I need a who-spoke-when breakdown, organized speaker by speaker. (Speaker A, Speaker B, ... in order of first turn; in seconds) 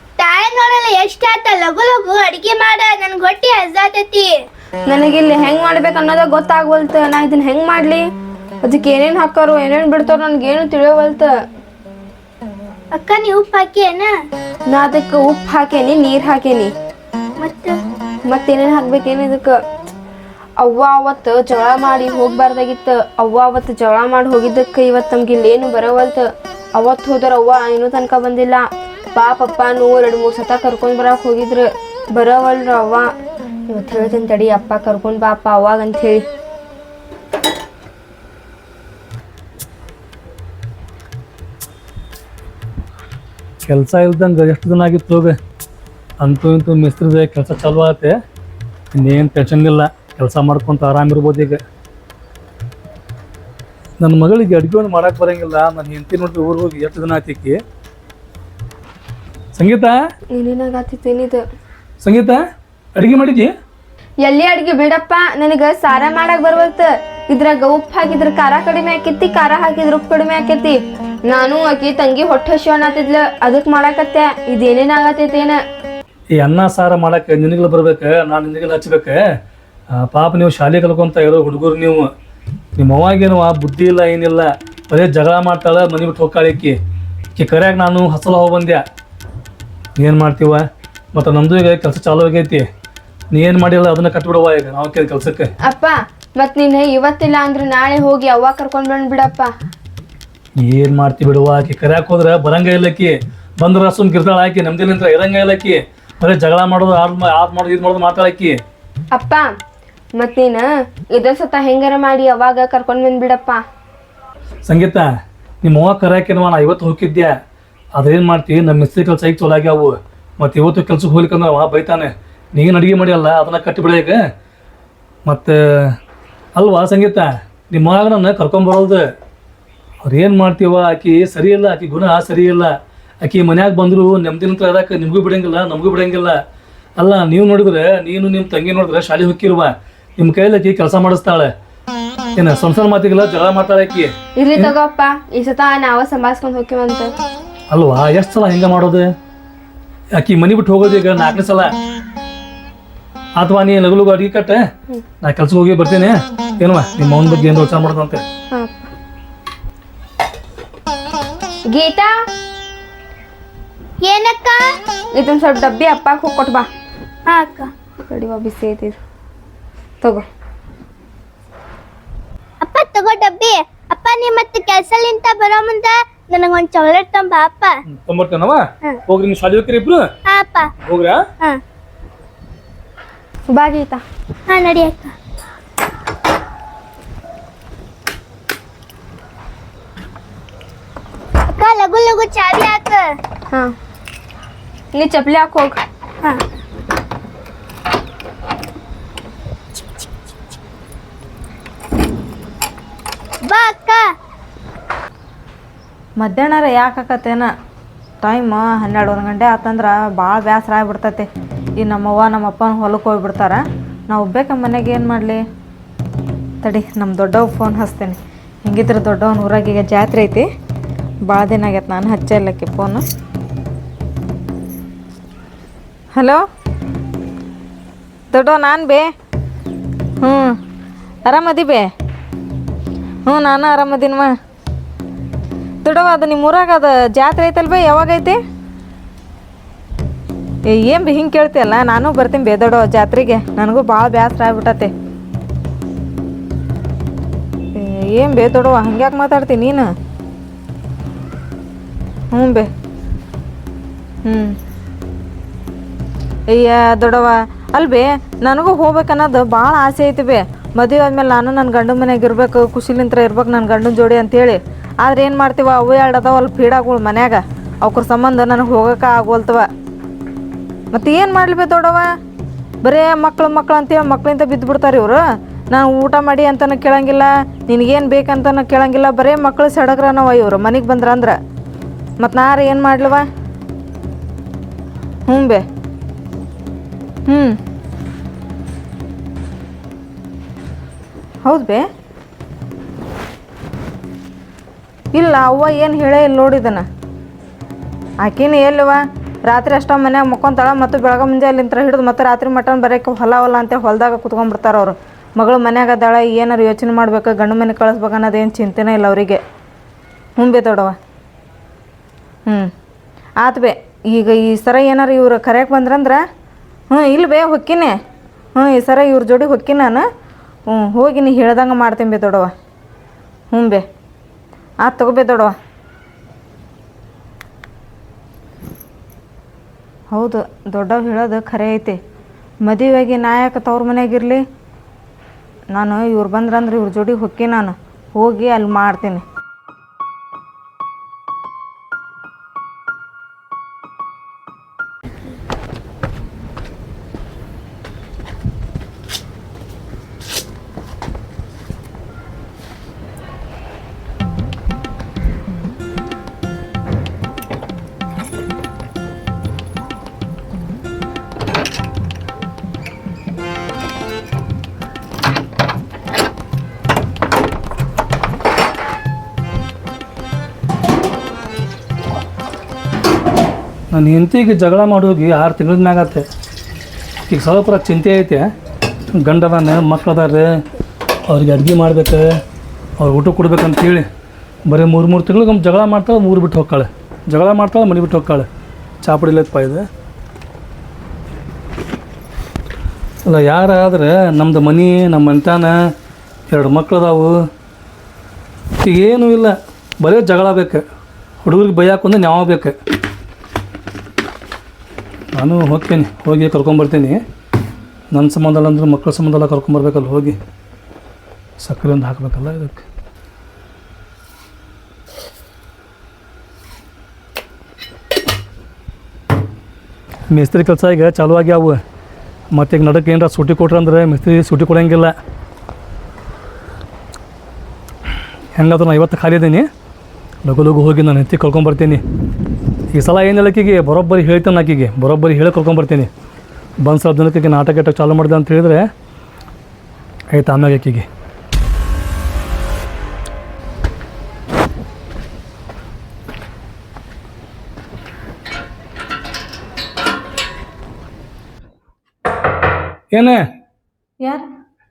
Speaker A: 0.2-4.4, 12.9-14.1, 17.4-17.8, 164.0-164.6, 167.2-167.7, 172.6-177.8, 180.3-180.7, 184.5-185.1, 191.5-193.1, 203.5-204.0
Speaker B: 4.9-8.0, 8.6-11.3, 14.7-16.7, 18.3-19.5, 20.6-33.1, 33.7-36.2, 60.3-61.4, 64.2-70.8, 71.3-75.6, 95.6-99.5, 109.1-109.5, 110.2-113.6, 144.4-147.1, 158.5-158.9, 161.7-162.1, 165.1-166.7, 168.1-169.0, 183.5-184.0, 194.9-195.8
Speaker C: 43.6-45.3, 46.2-48.1, 48.9-51.6, 54.0-57.6, 59.5-59.9, 62.0-62.4, 62.9-63.5, 76.3-79.2, 80.1-82.0, 82.8-86.8, 87.3-88.8, 90.0-90.6, 91.1-92.7, 93.3-95.5, 100.6-108.6, 114.6-115.0, 115.6-117.3, 117.9-124.2, 125.2-125.5, 126.5-129.0, 130.0-132.7, 133.2-136.3, 137.0-141.5, 142.3-144.7, 147.7-149.1, 150.1-151.7, 153.4-154.6, 155.2-158.2, 177.9-180.0, 180.8-181.2, 373.9-376.2, 377.3-378.5, 379.2-380.4, 381.3-382.2, 383.0-384.0, 384.7-388.5, 389.0-389.8, 393.2-395.7, 396.5-397.3, 398.8-400.8, 401.4-402.7, 405.3-407.2, 408.1-410.4, 411.6-412.8, 420.3-421.8, 422.5-425.1, 428.5-429.6, 430.4-432.0, 432.9-436.1, 436.8-438.9, 440.3-441.1, 453.1-453.4
Speaker D: 206.2-207.5, 208.2-211.2, 211.8-215.4, 216.6-220.4, 221.3-223.0, 226.1-226.4, 228.3-229.1, 230.2-230.5, 231.2-231.9, 233.2-234.3, 235.8-238.4, 240.7-244.9, 247.7-249.8, 252.3-252.7, 254.2-254.5, 256.5-269.6, 270.9-272.1, 272.8-275.2, 275.7-281.3, 282.2-283.2, 285.3-285.6, 287.3-287.5, 291.4-291.8, 295.1-296.8, 298.2-299.0, 299.5-309.4, 310.4-310.9, 313.4-316.2, 316.9-317.9, 318.6-320.0, 320.7-322.5, 323.5-323.8, 324.8-325.5, 330.1-332.0, 332.6-334.4, 335.7-339.2